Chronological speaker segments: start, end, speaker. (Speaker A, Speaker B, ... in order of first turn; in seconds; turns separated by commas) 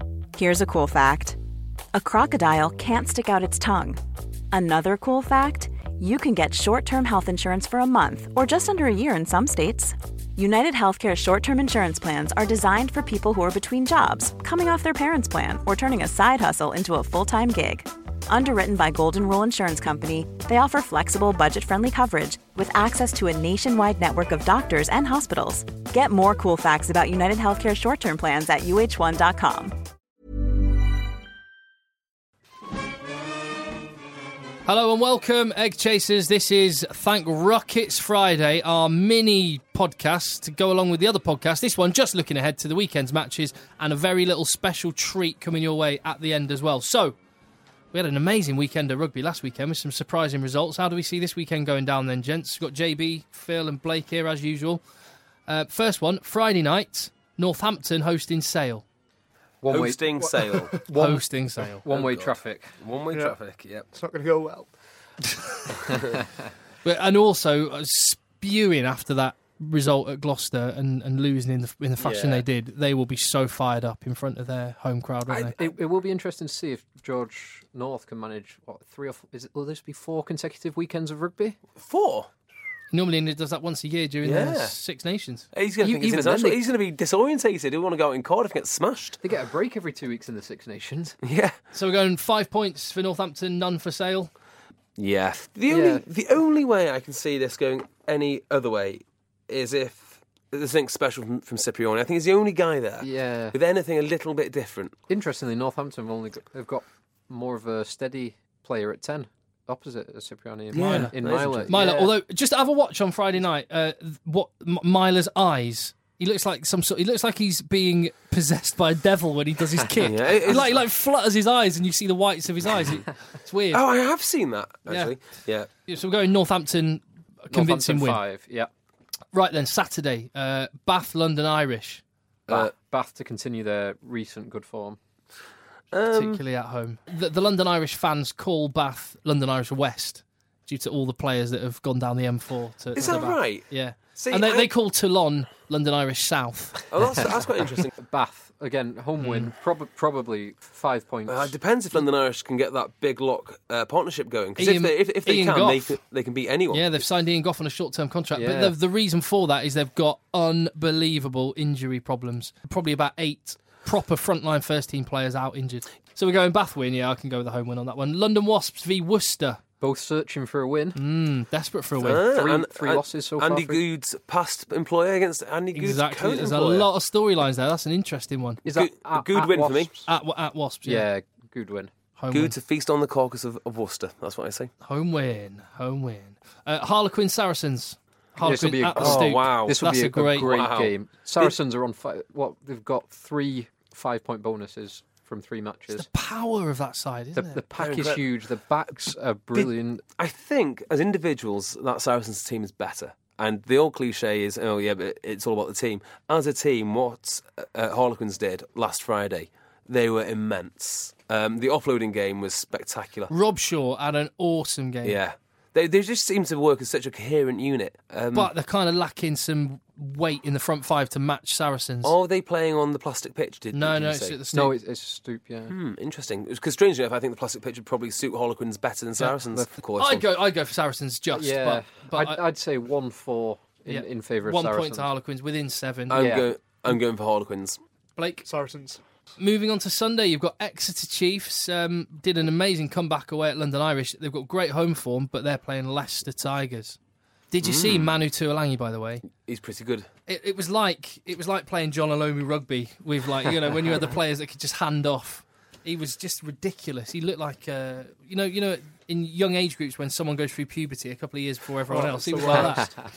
Speaker A: 0.3-1.4, Speaker A: 1.9-4.0, Speaker A: 4.5-29.7, Speaker B: 34.6-47.2, Speaker B: 47.9-54.8, Speaker B: 55.5-58.8, Speaker C: 59.6-61.3, Speaker D: 59.7-60.8, Speaker B: 60.9-61.8, Speaker C: 61.8-62.7, Speaker D: 61.9-63.9, Speaker E: 63.1-63.4, Speaker E: 63.9-64.7, Speaker B: 66.8-75.5, Speaker C: 72.0-72.5, Speaker D: 75.3-75.8, Speaker C: 75.6-81.6, Speaker D: 81.8-82.3, Speaker B: 82.9-85.5, Speaker D: 84.2-84.8, Speaker D: 85.5-89.2, Speaker C: 85.8-86.6, Speaker C: 89.2-91.1, Speaker D: 91.2-91.5, Speaker B: 91.7-94.3, Speaker D: 95.0-105.0, Speaker C: 95.7-96.0, Speaker C: 103.0-103.6, Speaker C: 105.1-112.1, Speaker D: 110.7-111.7, Speaker B: 110.7-123.8, Speaker D: 120.0-120.8, Speaker D: 123.7-125.7, Speaker B: 124.9-125.1, Speaker B: 125.9-128.2, Speaker C: 127.5-128.7, Speaker B: 129.3-132.0, Speaker C: 132.5-135.0, Speaker D: 135.9-136.4, Speaker B: 136.1-146.8, Speaker D: 142.9-144.7, Speaker D: 146.9-147.9, Speaker C: 148.0-151.6, Speaker B: 149.2-149.5, Speaker D: 151.3-157.0, Speaker B: 154.6-155.9, Speaker B: 156.7-169.6, Speaker C: 158.3-158.8, Speaker C: 169.8-171.0, Speaker B: 170.9-172.2, Speaker D: 172.0-176.9, Speaker C: 172.2-173.8, Speaker B: 175.7-178.6, Speaker C: 178.6-180.1, Speaker D: 178.7-179.9, Speaker B: 180.1-181.1, Speaker C: 180.8-181.9, Speaker B: 182.2-182.5, Speaker D: 182.3-184.7, Speaker B: 184.8-190.5, Speaker C: 188.4-196.1, Speaker D: 188.9-189.7, Speaker D: 190.4-191.5, Speaker B: 195.9-198.0, Speaker C: 197.3-200.0, Speaker D: 197.8-198.2, Speaker D: 199.5-213.3, Speaker B: 213.3-215.2, Speaker D: 215.0-218.5, Speaker B: 218.3-222.1, Speaker D: 222.0-224.4, Speaker B: 223.7-224.7, Speaker C: 224.5-225.7, Speaker D: 225.7-230.2, Speaker B: 229.2-232.4, Speaker C: 229.4-229.7, Speaker C: 231.3-235.1, Speaker B: 233.9-236.2, Speaker D: 236.1-237.8, Speaker C: 236.2-236.5, Speaker B: 238.2-238.5, Speaker E: 238.4-239.0, Speaker B: 239.4-247.0, Speaker B: 247.5-249.2, Speaker D: 247.6-248.1, Speaker D: 249.3-250.1, Speaker B: 250.3-262.9, Speaker E: 261.9-262.8